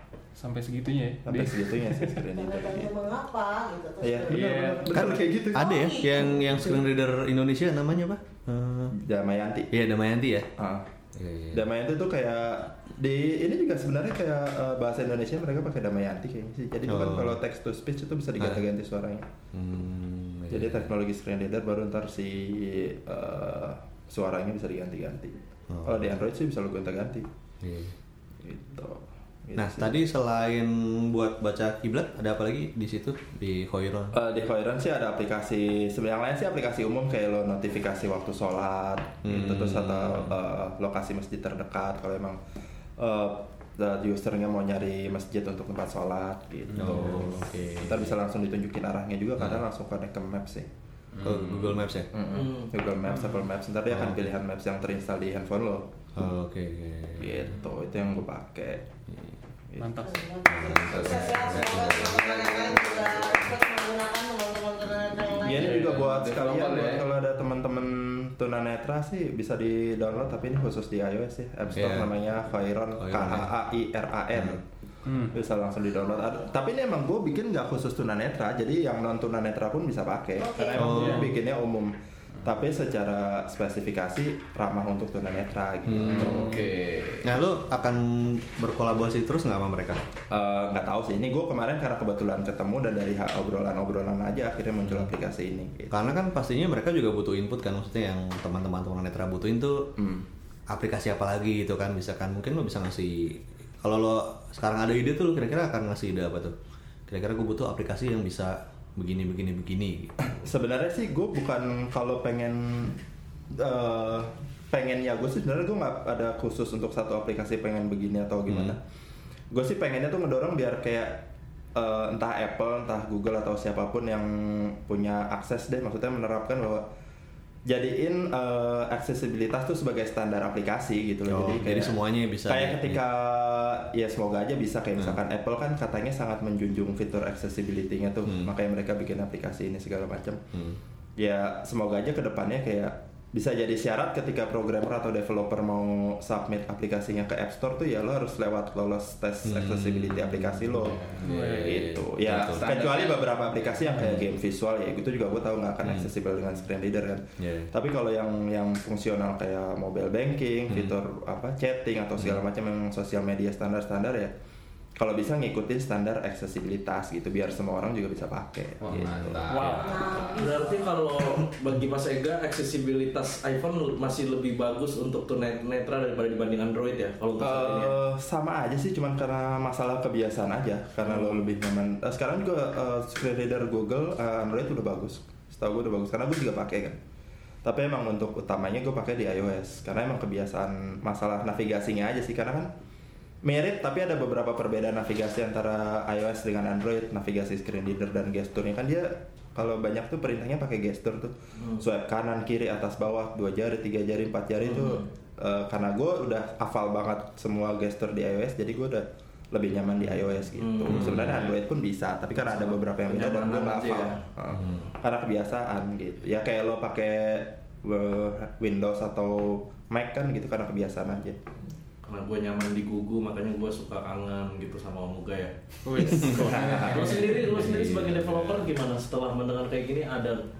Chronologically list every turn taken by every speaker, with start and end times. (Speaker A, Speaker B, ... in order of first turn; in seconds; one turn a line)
Speaker A: 0.3-2.1
Speaker B: 1.2-2.9
Speaker C: 2.3-4.5
Speaker B: 4.0-5.7
Speaker A: 4.3-4.8
Speaker D: 4.9-8.9
Speaker C: 5.5-6.7
Speaker B: 8.9-9.7
Speaker D: 9.7-10.4
Speaker B: 10.6-10.8
Speaker D: 11.2-11.5
Speaker B: 11.5-19.2
Speaker D: 16.9-17.4
Speaker D: 18.4-18.6
Speaker D: 19.5-20.9
Speaker B: 20.5-27.2
Speaker D: 25.7-26.1
Speaker B: 28.4-30.0
Speaker D: 29.6-34.1
Speaker B: 34.1-42.4
Speaker D: 39.2-40.4
Speaker B: 43.0-50.7
Speaker D: 46.7-48.2
Speaker D: 49.4-49.6
Speaker E: 51.1-51.8
Speaker D: 51.2-52.1
Speaker B: 52.1-55.9
Speaker F: 52.3-52.7
Speaker A: 53.0-53.5
Speaker D: 53.9-54.2
Speaker D: 56.1-57.5
Speaker B: 57.2-58.9
Speaker A: 59.8-60.2
Speaker C: 60.0-65.8
Speaker D: 60.5-62.2
Speaker E: 60.7-63.5
Speaker B: 65.4-74.6
Speaker E: 65.4-67.1
Speaker D: 71.7-72.1
Speaker D: 73.0-73.5
Speaker D: 74.3-74.6
Speaker A: 75.0-75.4
Speaker B: 75.3-86.7
Speaker C: 80.4-81.0
Speaker D: 80.8-81.3
Speaker A: 80.9-81.3
Speaker D: 85.9-86.6
Speaker E: 86.0-87.3
Speaker D: 87.2-90.0
Speaker B: 90.3-96.1
Speaker D: 94.8-95.1
Speaker D: 95.9-99.9
Speaker B: 100.0-100.3
Speaker D: 100.7-106.5
Speaker D: 107.1-110.1
Speaker B: 110.3-113.0
Speaker B: 113.5-118.8
Speaker D: 118.5-118.8
Speaker B: 119.5-126.8
Speaker B: 127.7-140.4
Speaker D: 131.2-133.0
Speaker D: 138.2-138.5
Speaker D: 140.5-140.8
Speaker B: 141.2-164.3
Speaker D: 149.4-151.6
Speaker A: 151.2-151.8
Speaker D: 152.2-152.7
Speaker E: 152.6-153.4
Speaker D: 154.0-154.2
Speaker D: 155.8-156.1
Speaker D: 157.4-157.7
Speaker D: 160.7-161.0
Speaker D: 162.2-162.4
Speaker B: 165.0-169.7
Speaker E: 168.8-170.3
Speaker A: 169.5-170.1
Speaker C: 169.7-171.0
Speaker F: 170.3-178.0
Speaker B: 177.4-187.0
Speaker F: 181.1-181.4
Speaker B: 187.6-192.7
Speaker B: 193.4-221.4
Speaker F: 204.6-205.0
Speaker F: 210.6-211.6
Speaker D: 210.8-211.4
Speaker F: 212.4-214.2
Speaker D: 214.5-214.8
Speaker F: 222.0-225.5
Speaker A: 225.8-227.4
Speaker B: 226.3-226.9
Speaker E: 226.3-228.7
Speaker F: 226.9-230.4